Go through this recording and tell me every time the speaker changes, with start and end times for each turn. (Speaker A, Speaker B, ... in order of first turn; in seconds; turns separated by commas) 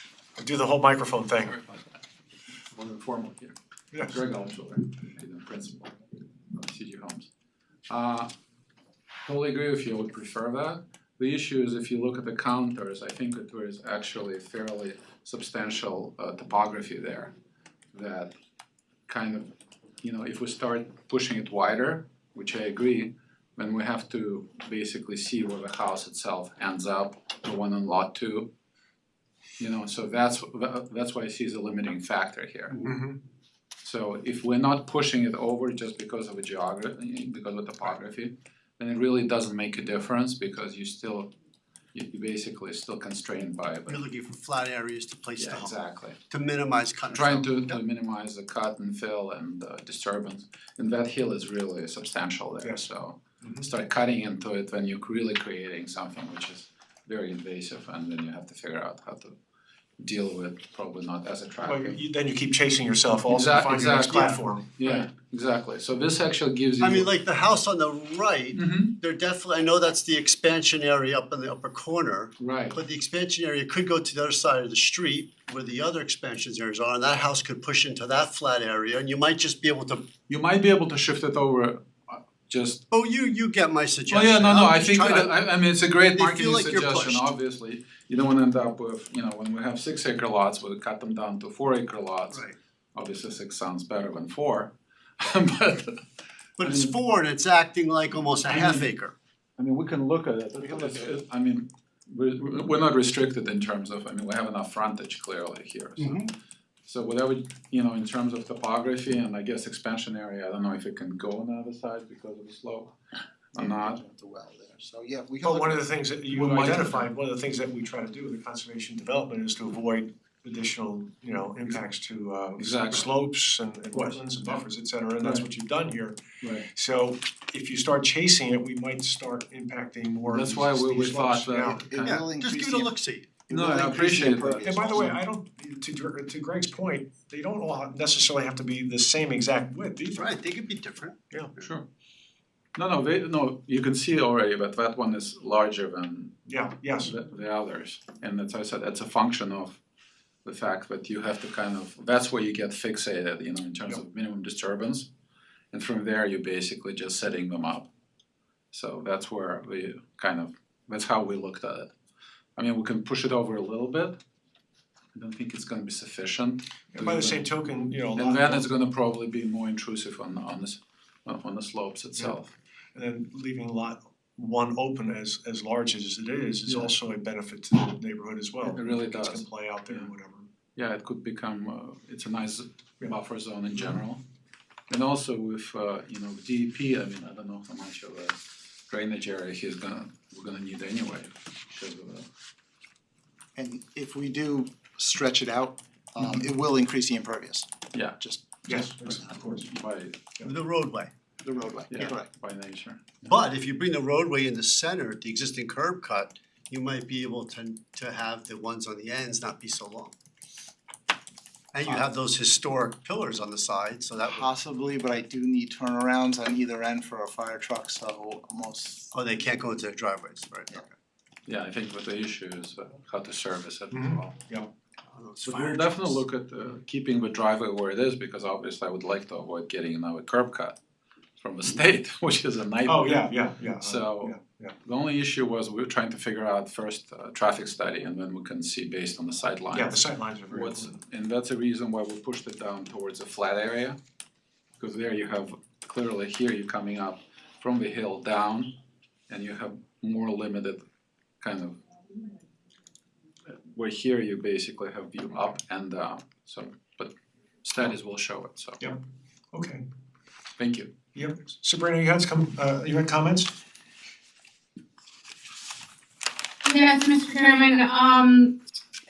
Speaker A: 0.3-1.6, Speaker B: 2.7-3.5, Speaker A: 3.9-4.2, Speaker B: 4.1-6.0, Speaker B: 6.5-7.3, Speaker B: 7.9-8.3, Speaker B: 9.2-17.3, Speaker B: 17.9-18.3, Speaker B: 19.1-19.5, Speaker B: 20.0-28.5, Speaker B: 29.6-32.9, Speaker A: 32.8-33.2, Speaker B: 33.8-41.3, Speaker B: 41.9-44.0, Speaker C: 43.9-47.8, Speaker B: 45.4-46.2, Speaker B: 47.1-59.4, Speaker A: 52.6-53.7, Speaker B: 60.0-62.0, Speaker A: 61.6-64.7, Speaker B: 63.3-67.1, Speaker C: 66.8-80.0, Speaker B: 68.5-68.9, Speaker B: 72.4-72.8, Speaker B: 80.3-82.8, Speaker C: 82.9-85.3, Speaker B: 84.1-96.0, Speaker C: 86.1-87.3, Speaker C: 96.6-99.1, Speaker B: 96.6-96.9, Speaker B: 98.5-98.9, Speaker B: 99.6-106.3, Speaker C: 106.0-106.3, Speaker B: 106.8-112.9, Speaker B: 113.5-114.0, Speaker D: 113.6-115.8, Speaker A: 115.4-131.8, Speaker B: 116.3-117.1, Speaker B: 122.6-123.1, Speaker B: 123.9-124.7, Speaker B: 125.2-125.5, Speaker B: 126.4-126.7, Speaker B: 130.3-132.2, Speaker D: 131.7-132.9, Speaker C: 131.9-133.4, Speaker D: 133.5-135.1, Speaker B: 133.5-135.2, Speaker A: 134.6-140.2, Speaker C: 140.2-141.6, Speaker B: 141.6-141.8, Speaker B: 142.8-146.4, Speaker A: 146.4-147.2, Speaker B: 147.0-149.8, Speaker B: 150.4-155.1, Speaker B: 155.7-157.9, Speaker B: 158.7-161.9, Speaker B: 162.6-164.2, Speaker B: 165.1-167.5, Speaker A: 166.9-168.7, Speaker B: 168.1-172.5, Speaker A: 172.9-180.5, Speaker B: 176.7-176.9, Speaker B: 178.7-180.1, Speaker B: 180.8-184.2, Speaker B: 184.9-188.4, Speaker B: 188.9-192.2, Speaker D: 193.6-197.7, Speaker B: 197.9-200.2, Speaker D: 198.2-198.6, Speaker A: 198.6-199.7, Speaker C: 200.4-201.1, Speaker D: 201.4-202.3, Speaker B: 201.9-203.3, Speaker C: 203.2-210.1, Speaker C: 211.7-214.5, Speaker D: 214.3-219.1, Speaker C: 219.1-220.9, Speaker B: 221.4-224.4, Speaker A: 223.9-224.7, Speaker C: 225.1-226.2, Speaker B: 225.4-230.8, Speaker B: 231.4-244.0, Speaker A: 232.8-234.8, Speaker A: 239.7-241.0, Speaker B: 244.8-248.7, Speaker B: 249.3-250.8, Speaker B: 251.4-251.8, Speaker B: 253.5-257.1, Speaker B: 257.6-258.9, Speaker A: 259.5-259.9, Speaker B: 260.6-260.9, Speaker A: 261.1-263.5, Speaker E: 266.6-268.6